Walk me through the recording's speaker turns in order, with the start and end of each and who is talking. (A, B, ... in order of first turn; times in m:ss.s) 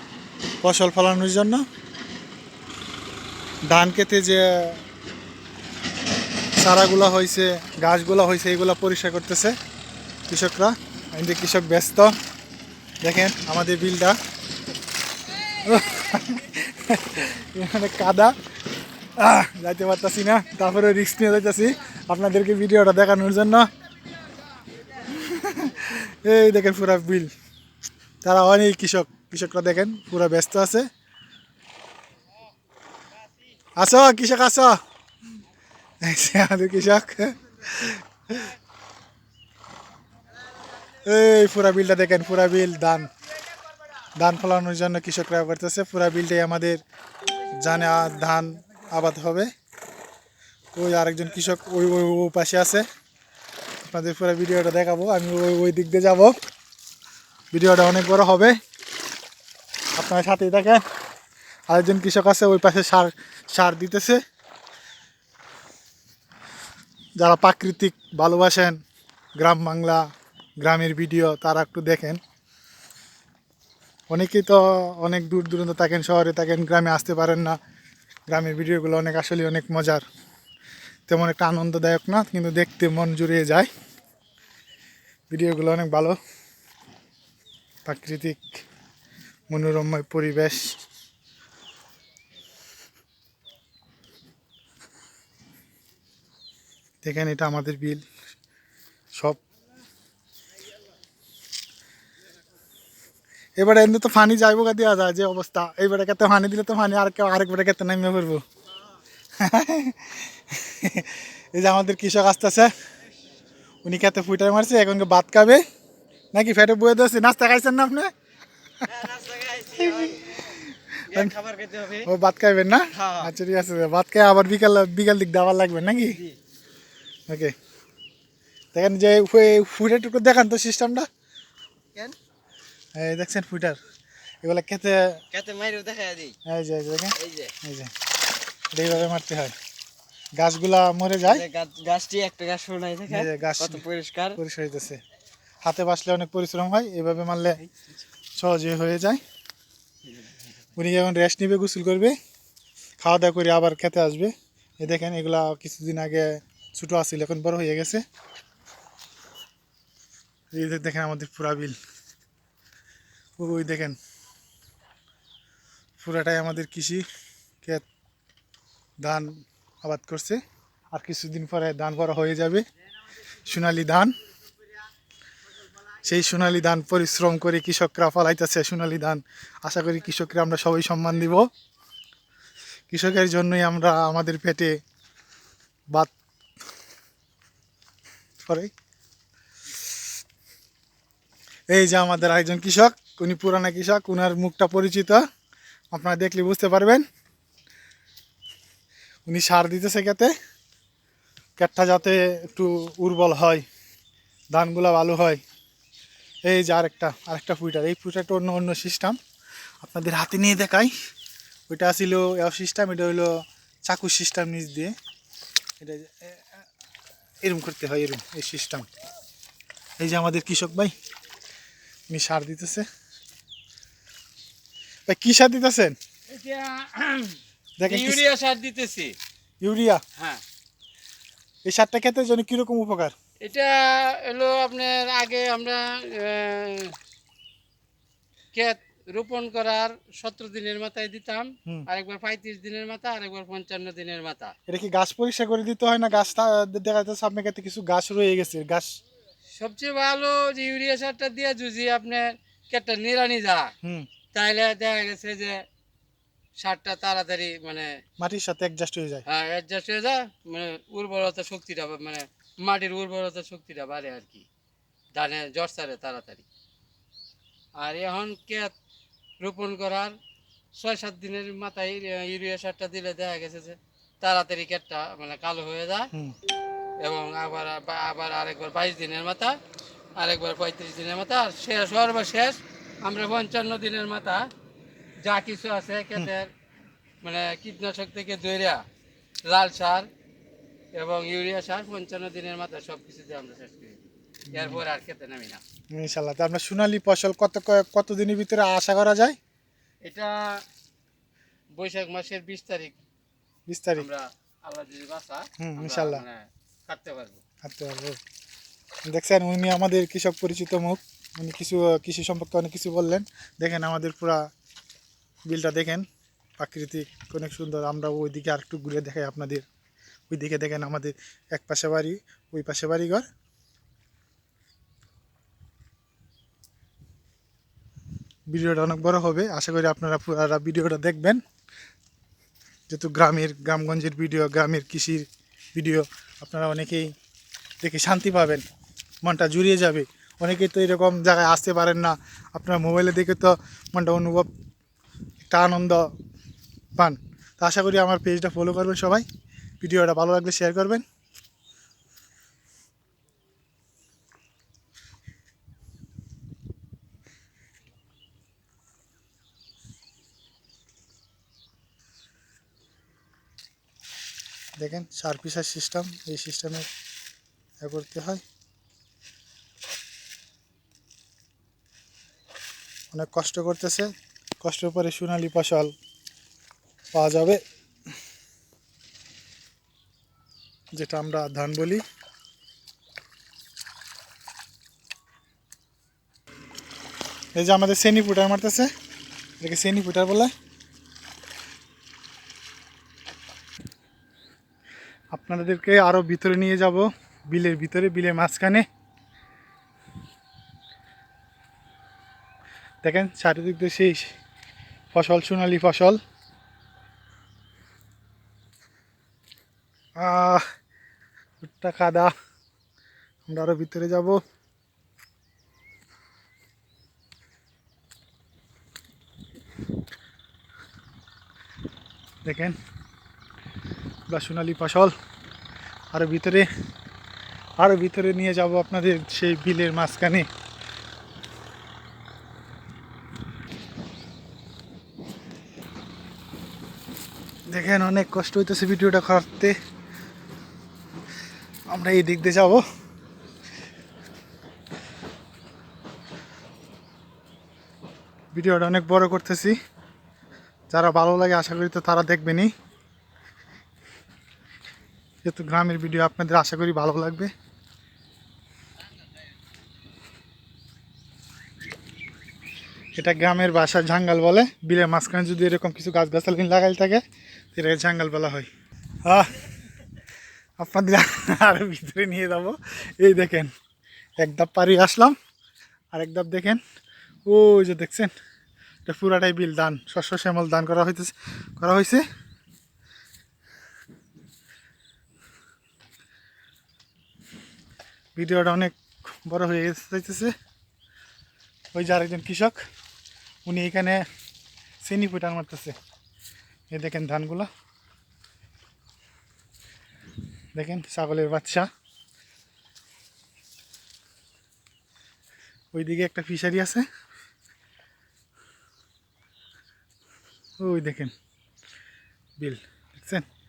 0:00.6-0:01.6 A
0:03.7-0:04.8 A
0:06.6-0:09.5 A
0:10.3-0:12.1 A
0:13.0-0:14.2 A
0:15.6-0:18.3 A
0:19.2-0:23.7 A
0:25.0-0:27.3 A
0:28.2-0:30.9 A
0:33.8-0:34.8 A
0:36.0-0:38.5 A
0:41.0-0:43.1 A
0:44.2-0:46.8 A
0:47.5-0:49.5 A
0:50.8-0:52.9 A
0:53.8-0:56.3 A
0:57.5-0:58.5 A
1:00.0-1:00.8 A
1:01.7-1:04.2 A
1:07.2-1:08.8 A
1:09.4-1:10.0 A
1:10.6-1:12.2 A
1:14.1-1:17.6 A
1:18.3-1:20.0 A
1:21.1-1:23.7 A
1:25.3-1:26.2 A
1:27.9-1:28.5 A
1:29.5-1:30.8 A
1:37.0-1:38.1 A
1:43.6-1:48.4 A
1:49.4-1:52.7 A
1:53.8-1:55.6 A
1:56.3-1:58.1 A
1:58.9-2:00.6 B
1:59.8-2:01.4 A
2:01.1-2:02.1 B
2:02.0-2:06.2 A
2:03.0-2:03.3 B
2:07.3-2:07.5 A
2:08.7-2:11.1 A
2:13.0-2:13.8 A
2:14.4-2:15.0 A
2:15.3-2:16.4 B
2:16.5-2:17.9 A
2:18.7-2:19.6 A
2:20.4-2:21.5 A
2:21.2-2:24.4 B
2:23.1-2:23.8 A
2:24.4-2:25.0 A
2:25.6-2:27.6 A
2:28.4-2:29.2 A
2:30.8-2:32.2 A
2:33.0-2:38.0 A
2:40.5-2:41.8 A
2:43.4-2:44.0 A
2:46.0-2:47.0 A
2:49.0-2:49.3 A
2:49.8-2:50.4 A
2:50.9-2:52.6 A
2:53.4-2:54.2 A
2:56.0-3:01.5 A
3:02.9-3:04.7 A
3:08.4-3:08.7 A
3:11.7-3:15.2 A
3:15.9-3:17.0 A
3:19.3-3:20.3 A
3:21.6-3:23.6 A
3:24.5-3:25.4 A
3:26.5-3:29.2 A
3:29.8-3:30.9 A
3:31.7-3:33.3 A
3:33.9-3:34.9 A
3:35.8-3:36.6 A
3:37.4-3:38.9 A
3:40.0-3:40.9 A
3:42.1-3:42.8 A
3:45.1-3:46.0 A
3:46.3-3:49.2 C
3:47.8-3:48.3 A
3:49.6-3:50.0 A
3:50.2-3:50.4 C
3:51.7-3:53.1 A
3:53.4-3:56.9 C
3:58.5-4:04.5 C
4:04.7-4:09.0 A
4:09.6-4:13.7 C
4:13.8-4:14.1 A
4:14.3-4:15.6 C
4:16.6-4:17.9 C
4:18.2-4:19.2 A
4:19.3-4:24.4 C
4:25.1-4:26.4 C
4:27.8-4:28.7 C
4:29.4-4:30.1 C
4:30.8-4:36.1 C
4:37.0-4:39.6 C
4:40.2-4:44.5 C
4:45.2-4:46.5 C
4:47.2-4:48.8 C
4:49.5-4:50.1 C
4:51.0-4:55.6 C
4:54.5-4:54.8 A
4:55.9-4:59.4 A
5:00.0-5:00.6 C
5:01.8-5:03.0 C
5:03.7-5:04.1 A
5:04.0-5:07.4 C
5:05.6-5:06.2 A
5:07.6-5:08.2 A
5:09.1-5:14.4 A
5:15.5-5:16.1 A
5:16.6-5:19.7 A
5:20.3-5:23.3 A
5:28.5-5:31.4 A
5:32.9-5:37.1 A
5:37.8-5:38.6 A
5:39.2-5:44.5 A
5:45.4-5:46.1 A
5:47.0-5:49.2 A
5:49.8-5:51.0 A
6:04.8-6:06.9 A
6:07.8-6:08.4 A
6:13.1-6:14.1 A
6:14.6-6:15.9 A
6:17.1-6:17.6 A
6:21.0-6:22.0 A
6:27.6-6:28.9 A
6:29.6-6:30.5 A
6:35.3-6:38.8 A
6:43.0-6:44.3 A
6:45.1-6:46.2 A
6:50.2-6:50.6 A
6:51.6-6:52.3 A
6:53.5-6:54.4 A
7:02.4-7:02.8 A
7:04.3-7:05.1 A
7:06.1-7:06.7 A
7:07.8-7:10.5 A
7:17.7-7:19.7 A
7:21.9-7:22.8 A
7:28.5-7:29.8 A
7:30.9-7:32.7 A
7:35.4-7:37.5 A
7:43.2-7:47.2 A
7:47.8-7:48.7 A
7:49.2-7:49.6 A
7:50.8-7:53.7 A
7:54.4-7:55.4 A
7:56.1-7:56.8 A
7:57.5-7:58.3 A
7:59.1-8:02.2 A
8:08.4-8:10.5 A
8:11.9-8:12.8 A
8:13.7-8:14.2 A
8:15.0-8:15.9 A
8:16.9-8:17.7 A
8:20.8-8:21.9 A
8:25.9-8:27.0 A
8:30.8-8:31.3 A
8:32.6-8:33.4 A